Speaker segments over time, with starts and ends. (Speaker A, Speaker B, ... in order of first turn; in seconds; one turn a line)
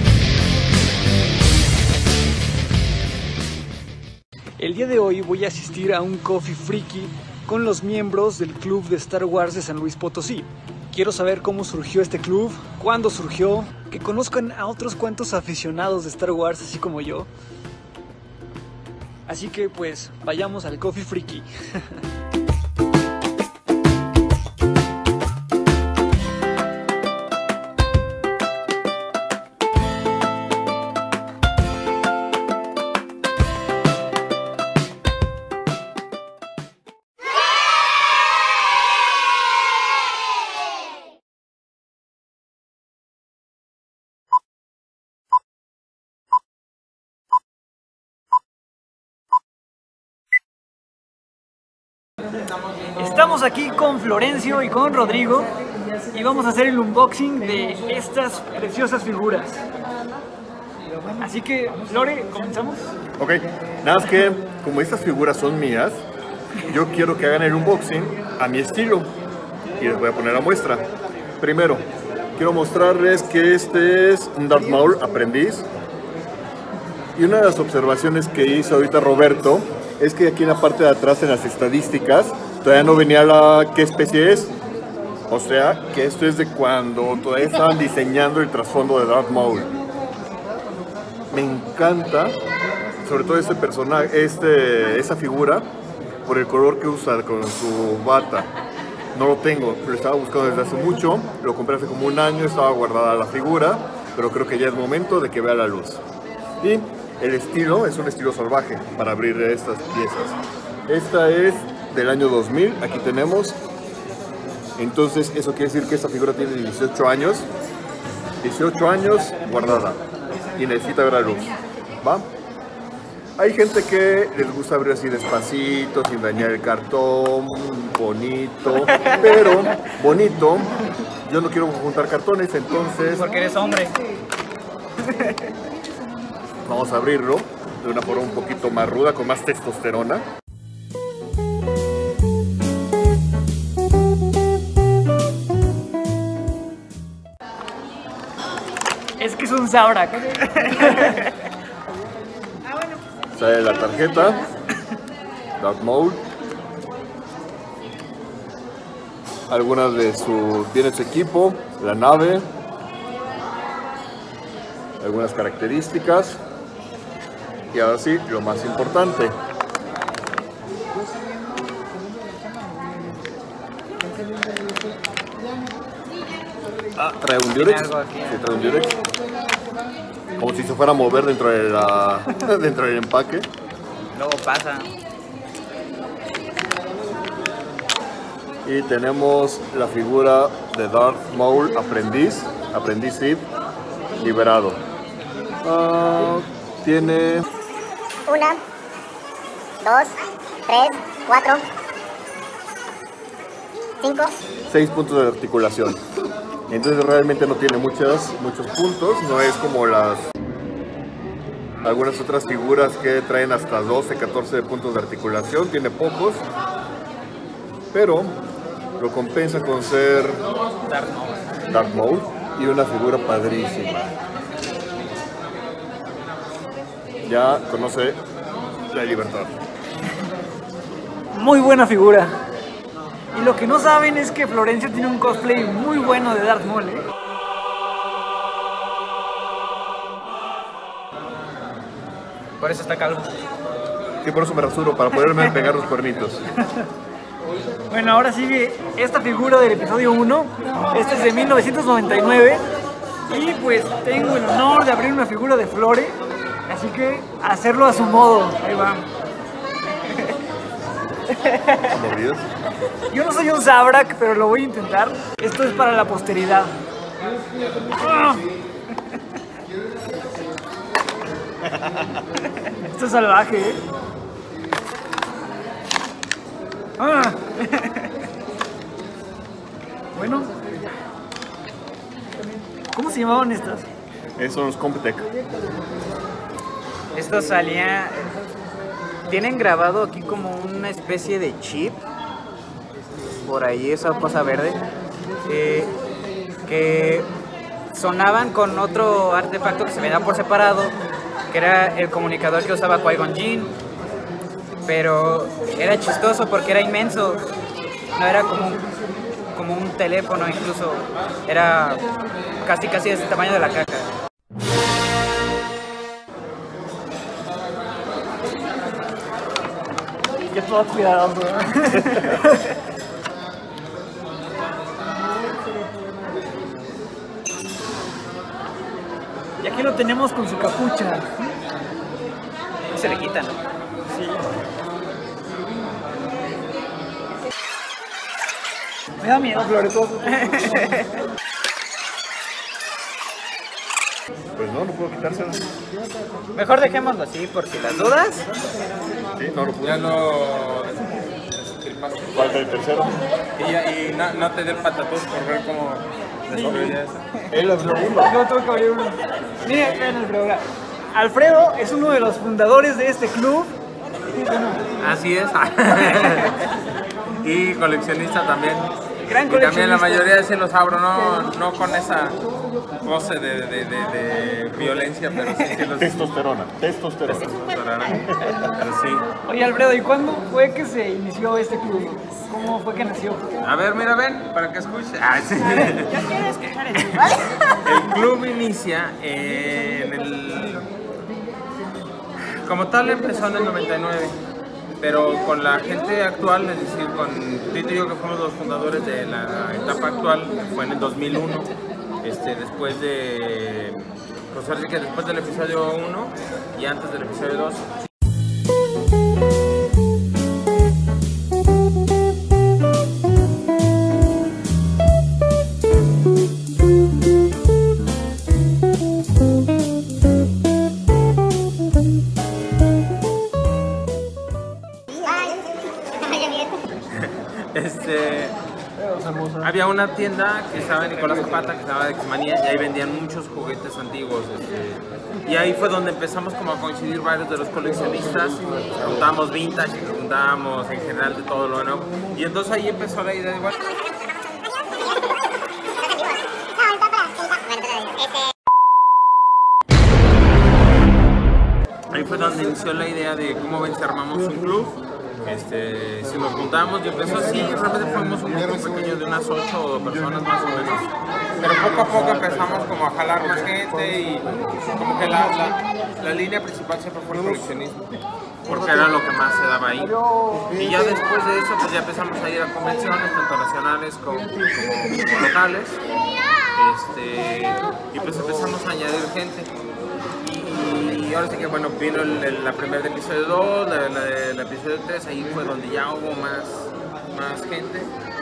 Speaker A: 4.6-17.3
Speaker A: 19.3-21.9
Speaker A: 53.0-55.5
Speaker A: 56.1-59.6
Speaker A: 61.2-62.9
Speaker B: 63.2-66.0
Speaker B: 66.6-69.1
Speaker B: 69.8-70.8
Speaker B: 71.4-71.8
Speaker B: 72.3-75.7
Speaker B: 77.2-84.5
Speaker B: 85.3-89.7
Speaker B: 91.3-92.4
Speaker B: 93.0-95.7
Speaker B: 96.2-98.5
Speaker B: 99.1-106.0
Speaker B: 106.6-110.4
Speaker B: 110.9-113.6
Speaker B: 114.8-117.5
Speaker B: 118.4-120.0
Speaker B: 120.5-122.3
Speaker B: 123.4-133.3
Speaker C: 128.8-129.6
Speaker C: 133.1-134.0
Speaker C: 135.0-135.5
Speaker B: 136.6-140.3
Speaker A: 149.2-151.2
Speaker B: 153.3-154.4
Speaker B: 155.6-156.2
Speaker B: 159.5-162.5
Speaker B: 165.0-166.4
Speaker B: 167.7-169.3
Speaker B: 176.9-179.0
Speaker C: 177.5-178.5
Speaker B: 180.4-183.5
Speaker C: 184.1-184.9
Speaker B: 188.6-193.4
Speaker B: 194.2-194.8
Speaker B: 195.6-197.4
Speaker D: 198.3-198.6
Speaker D: 199.8-200.1
Speaker D: 200.7-201.6
Speaker D: 204.0-204.3
Speaker B: 204.7-206.0
Speaker B: 206.7-210.3
Speaker B: 211.8-216.4
Speaker B: 217.9-218.4
Speaker B: 219.0-220.4
Speaker C: 220.9-221.5
Speaker B: 221.7-224.1
Speaker B: 227.2-228.2
Speaker B: 228.8-229.6
Speaker A: 231.3-232.4
Speaker A: 233.3-237.1
Speaker C: 242.6-243.3
Speaker B: 244.2-246.4
Speaker A: 247.9-252.6
Speaker A: 253.3-256.2
Speaker A: 256.7-259.1
Speaker C: 261.5-261.9
Speaker B: 261.9-262.4
Speaker A: 263.1-266.7
Speaker A: 267.9-268.4
Speaker A: 272.7-273.8
Speaker A: 277.0-277.4
Speaker C: 277.7-278.1
Speaker A: 280.1-280.5
Speaker A: 282.9-283.9
Speaker B: 284.4-285.3
Speaker C: 287.1-288.4
Speaker C: 289.3-292.0
Speaker C: 293.4-294.8
Speaker C: 295.4-295.9
Speaker C: 296.6-297.3
Speaker C: 297.9-300.9
Speaker C: 301.5-303.7
Speaker C: 304.9-307.5
Speaker C: 308.1-308.8
Speaker C: 309.5-312.1
Speaker C: 312.6-314.1
Speaker A: 320.5-322.7
Speaker A: 329.6-331.4
Speaker C: 332.9-333.6
Speaker A: 334.1-334.5
Speaker A: 339.2-340.6
Speaker C: 340.3-341.1
Speaker B: 344.6-345.6
Speaker C: 346.5-348.5
Speaker B: 349.3-350.1
Speaker E: 349.8-352.6
Speaker B: 352.3-353.2
Speaker E: 353.6-357.2
Speaker B: 356.5-357.0
Speaker B: 357.5-358.4
Speaker A: 358.1-363.8
Speaker A: 364.4-364.8
Speaker E: 365.0-366.7
Speaker E: 367.4-368.9
Speaker A: 369.2-370.4
Speaker E: 369.4-372.4
Speaker E: 373.0-376.2
Speaker B: 376.0-377.5
Speaker E: 377.3-379.3
Speaker B: 378.3-378.6
Speaker A: 379.4-383.5
Speaker E: 383.6-390.9
Speaker E: 392.6-394.4
Speaker E: 395.0-407.9
Speaker D: 425.1-425.7
Speaker D: 426.2-426.8
Speaker E: 427.0-428.5
Speaker B: 429.0-429.6
Speaker E: 429.6-443.7
Speaker D: 446.1-448.4
Speaker E: 452.1-468.1
Speaker E: 468.6-476.0
Speaker E: 476.7-479.7
Speaker E: 480.4-488.1